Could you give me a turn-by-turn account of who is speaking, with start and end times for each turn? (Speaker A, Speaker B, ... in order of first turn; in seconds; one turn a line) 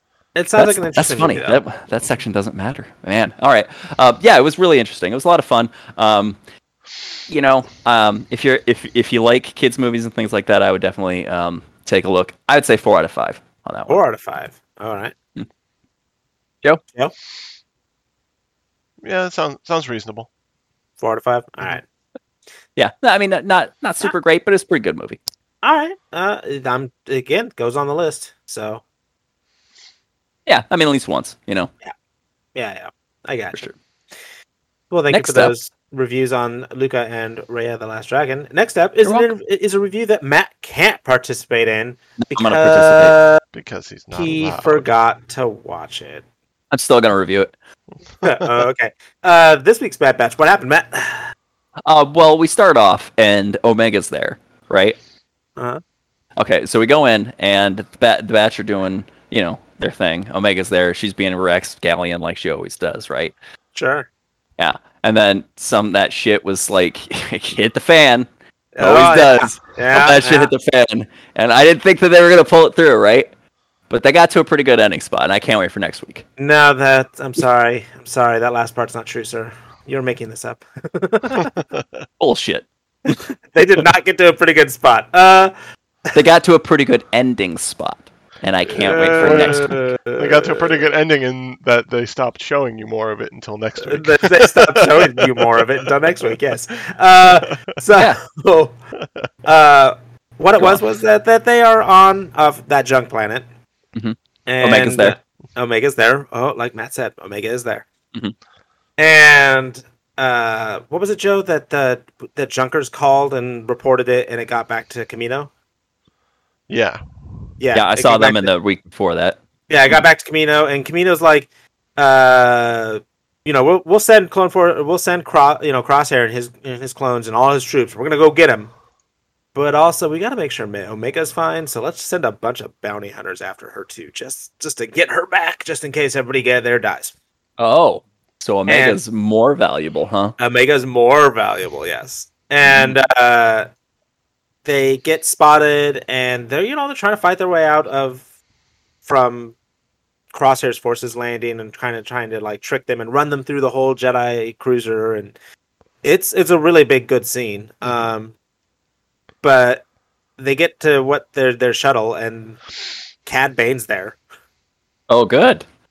Speaker A: 0.3-1.6
Speaker B: 0.5-6.4
Speaker B: 7.3-14.0
Speaker A: 13.9-15.1
Speaker C: 19.0-20.3
Speaker A: 21.0-21.8
Speaker B: 22.8-25.2
Speaker A: 25.6-28.8
Speaker B: 30.5-31.7
Speaker A: 32.5-33.6
Speaker A: 34.9-43.4
Speaker B: 35.1-35.5
Speaker B: 39.0-39.3
Speaker B: 42.2-43.1
Speaker C: 43.5-44.9
Speaker A: 44.1-46.2
Speaker B: 46.7-47.5
Speaker A: 48.2-51.3
Speaker B: 51.9-55.0
Speaker A: 55.6-55.8
Speaker B: 56.4-63.3
Speaker A: 63.7-64.1
Speaker B: 64.6-68.3
Speaker A: 68.8-70.5
Speaker B: 68.8-73.3
Speaker B: 73.9-76.2
Speaker A: 76.4-81.6
Speaker B: 82.2-82.7
Speaker A: 83.1-85.5
Speaker B: 86.1-89.8
Speaker A: 88.7-90.8
Speaker C: 89.2-95.9
Speaker A: 93.8-98.8
Speaker A: 99.4-103.4
Speaker B: 104.0-105.1
Speaker A: 104.5-107.9
Speaker A: 109.0-115.5
Speaker C: 116.7-117.4
Speaker A: 117.6-118.5
Speaker B: 117.7-120.0
Speaker A: 119.7-128.7
Speaker A: 129.5-137.1
Speaker B: 137.6-140.3
Speaker A: 138.7-139.0
Speaker A: 140.4-143.7
Speaker B: 142.6-143.0
Speaker A: 144.6-148.2
Speaker A: 149.0-149.6
Speaker A: 150.3-155.3
Speaker A: 156.0-158.3
Speaker A: 159.4-159.8
Speaker A: 160.4-162.6
Speaker A: 163.2-164.2
Speaker B: 165.1-165.6